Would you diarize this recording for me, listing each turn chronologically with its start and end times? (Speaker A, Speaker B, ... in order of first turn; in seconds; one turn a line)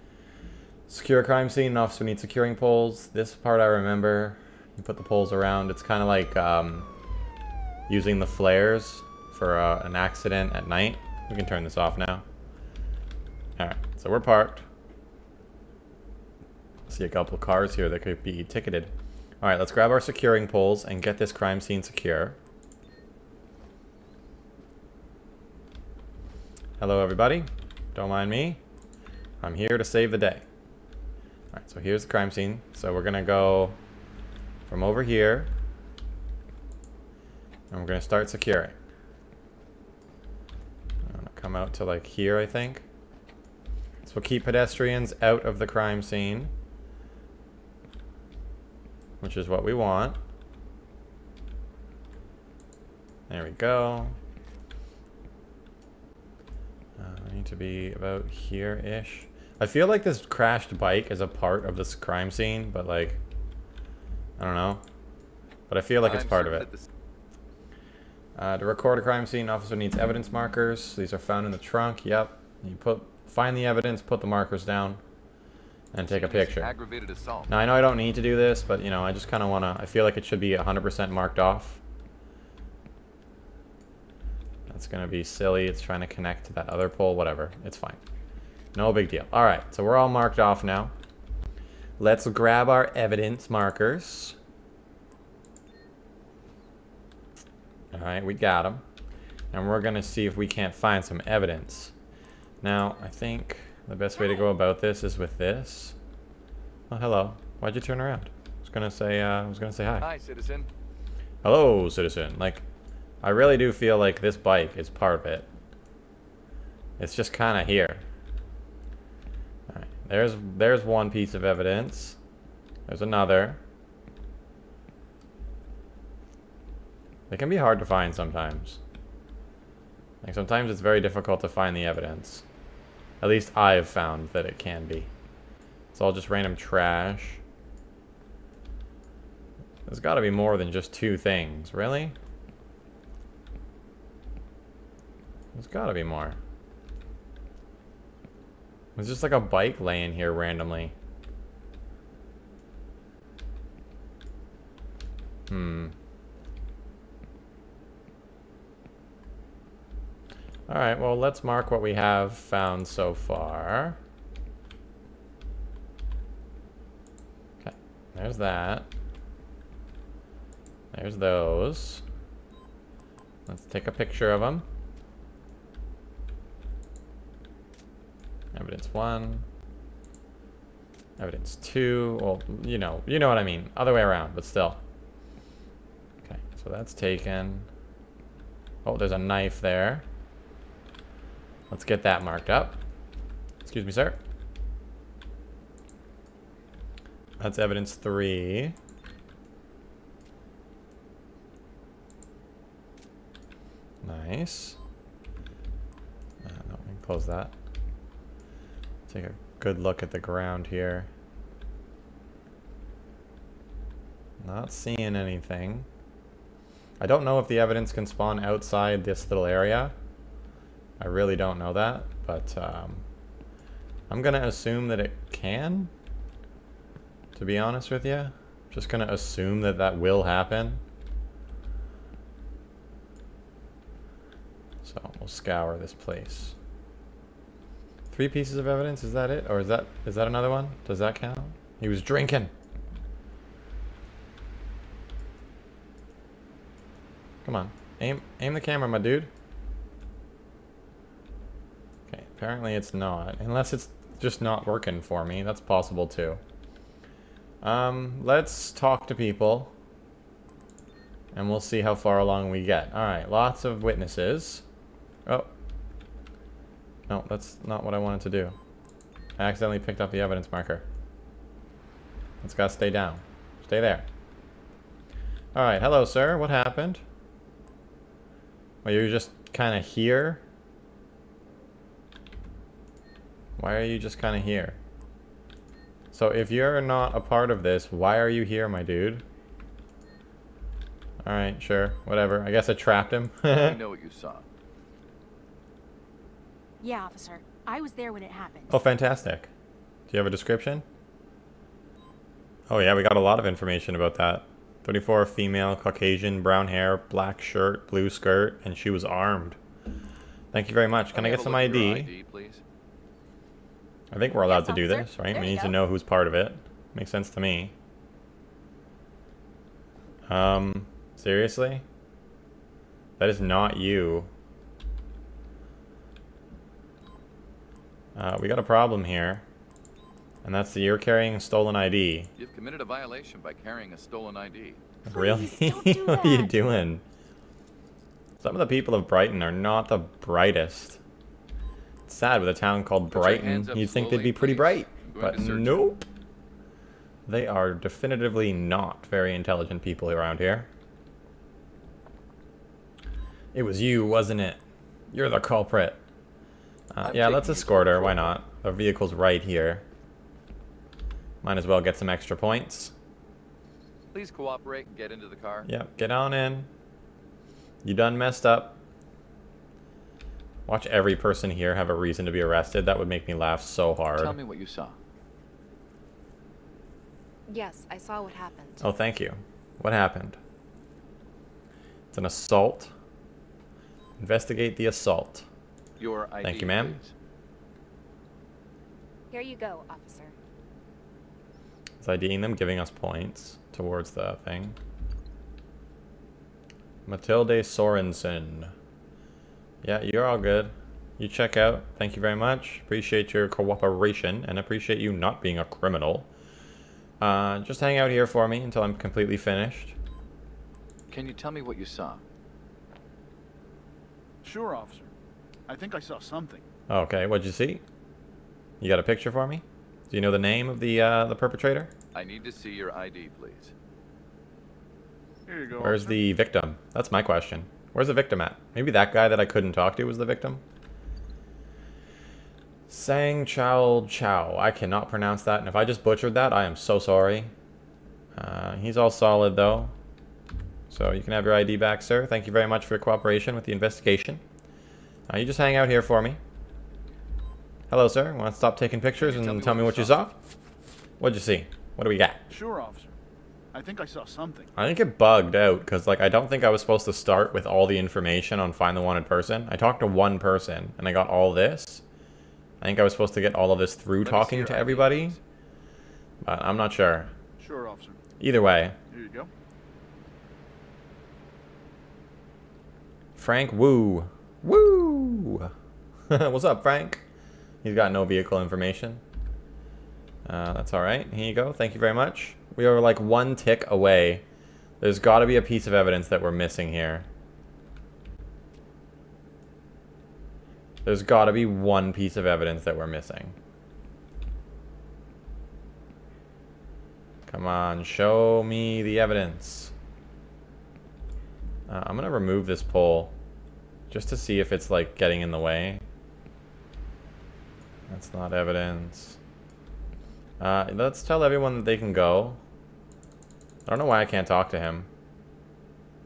Speaker A: 0.9-6.9
Speaker A: 7.9-12.2
Speaker A: 13.6-14.7
Speaker A: 16.9-22.4
Speaker A: 26.8-28.6
Speaker A: 29.4-30.4
Speaker A: 31.5-33.8
Speaker A: 34.7-35.5
Speaker A: 37.7-38.8
Speaker A: 41.0-42.9
Speaker A: 44.0-46.5
Speaker A: 49.2-50.2
Speaker A: 53.3-54.2
Speaker A: 57.0-63.2
Speaker A: 64.4-64.8
Speaker A: 65.7-66.7
Speaker B: 66.0-66.9
Speaker A: 68.4-75.0
Speaker A: 75.9-76.7
Speaker B: 76.0-77.5
Speaker A: 77.5-81.8
Speaker A: 84.7-88.0
Speaker A: 88.7-90.9
Speaker A: 92.0-94.4
Speaker A: 97.9-98.8
Speaker A: 99.5-101.9
Speaker A: 102.6-106.0
Speaker A: 106.9-110.1
Speaker B: 110.0-110.7
Speaker A: 111.4-112.6
Speaker A: 113.2-115.5
Speaker A: 117.0-118.0
Speaker A: 119.7-122.2
Speaker A: 122.9-123.6
Speaker A: 127.3-128.8
Speaker A: 130.2-132.4
Speaker A: 133.2-135.1
Speaker A: 135.9-137.4
Speaker A: 139.9-142.2
Speaker A: 145.5-146.4
Speaker A: 149.0-150.9
Speaker A: 155.5-155.9
Speaker A: 160.7-164.0
Speaker A: 167.6-168.9
Speaker A: 170.9-172.0
Speaker A: 173.5-174.7
Speaker A: 178.5-179.4
Speaker A: 181.2-184.8
Speaker A: 186.2-187.7
Speaker A: 188.8-190.1
Speaker A: 191.7-192.8
Speaker A: 193.7-194.2
Speaker A: 197.4-198.8
Speaker A: 204.0-204.8
Speaker A: 206.4-207.5
Speaker A: 209.1-211.1
Speaker A: 214.4-215.9
Speaker A: 217.0-219.9
Speaker A: 221.0-223.0
Speaker A: 224.1-225.9
Speaker A: 227.4-230.8
Speaker A: 234.8-236.6
Speaker A: 238.1-242.5
Speaker A: 247.4-249.3
Speaker A: 252.1-256.4
Speaker A: 257.6-259.7
Speaker A: 261.3-264.6
Speaker A: 267.1-268.6
Speaker A: 269.4-270.9
Speaker A: 272.4-274.1
Speaker A: 275.6-277.0
Speaker A: 278.8-280.4
Speaker A: 283.6-284.8
Speaker A: 286.1-289.2
Speaker A: 291.2-293.8
Speaker B: 293.5-294.5
Speaker C: 296.8-298.8
Speaker A: 298.7-299.5
Speaker A: 300.1-300.9
Speaker A: 302.7-309.6
Speaker A: 310.5-312.1
Speaker B: 311.1-312.6
Speaker A: 314.1-317.7
Speaker C: 314.4-315.8
Speaker A: 320.3-321.8
Speaker A: 323.2-324.3
Speaker A: 328.1-329.4
Speaker A: 330.4-332.3
Speaker B: 332.4-334.8
Speaker A: 335.1-337.0
Speaker C: 335.1-336.6
Speaker A: 338.4-341.0
Speaker A: 342.1-346.1
Speaker B: 343.1-345.9
Speaker A: 347.3-350.7
Speaker A: 353.5-356.0
Speaker A: 356.9-359.8
Speaker B: 357.0-358.4
Speaker A: 361.4-362.9
Speaker B: 364.1-365.7
Speaker A: 365.7-366.7
Speaker A: 367.8-368.8
Speaker A: 370.7-374.4
Speaker B: 374.1-375.0
Speaker D: 377.5-378.9
Speaker A: 378.8-380.4
Speaker A: 382.1-382.9
Speaker A: 384.2-385.5
Speaker B: 386.0-387.1
Speaker A: 386.4-387.0
Speaker D: 389.3-390.4
Speaker A: 392.0-394.8
Speaker A: 397.1-398.7
Speaker A: 399.8-406.3
Speaker A: 407.2-410.0
Speaker B: 411.1-412.2
Speaker E: 414.4-415.1
Speaker E: 415.7-416.6
Speaker A: 416.9-417.8
Speaker A: 418.8-421.9
Speaker B: 422.1-423.7
Speaker E: 425.5-426.2
Speaker A: 425.8-430.6
Speaker A: 432.9-437.5
Speaker A: 438.4-439.9
Speaker A: 440.9-444.4
Speaker A: 445.3-446.4
Speaker A: 447.9-450.4
Speaker B: 449.2-450.2
Speaker A: 451.2-452.4
Speaker E: 452.5-453.1
Speaker E: 453.7-454.7
Speaker A: 454.8-462.0
Speaker A: 462.8-465.4
Speaker B: 464.2-465.4
Speaker A: 466.4-467.3
Speaker E: 467.6-468.2
Speaker A: 468.4-469.0
Speaker E: 469.1-469.5
Speaker A: 473.4-475.7
Speaker A: 476.3-477.2
Speaker A: 477.8-479.2
Speaker A: 480.4-484.4
Speaker A: 485.0-487.3
Speaker A: 491.1-493.6
Speaker A: 497.5-499.9
Speaker A: 501.9-503.3
Speaker A: 504.1-506.0
Speaker A: 508.1-509.4
Speaker A: 510.6-512.6
Speaker A: 513.9-515.1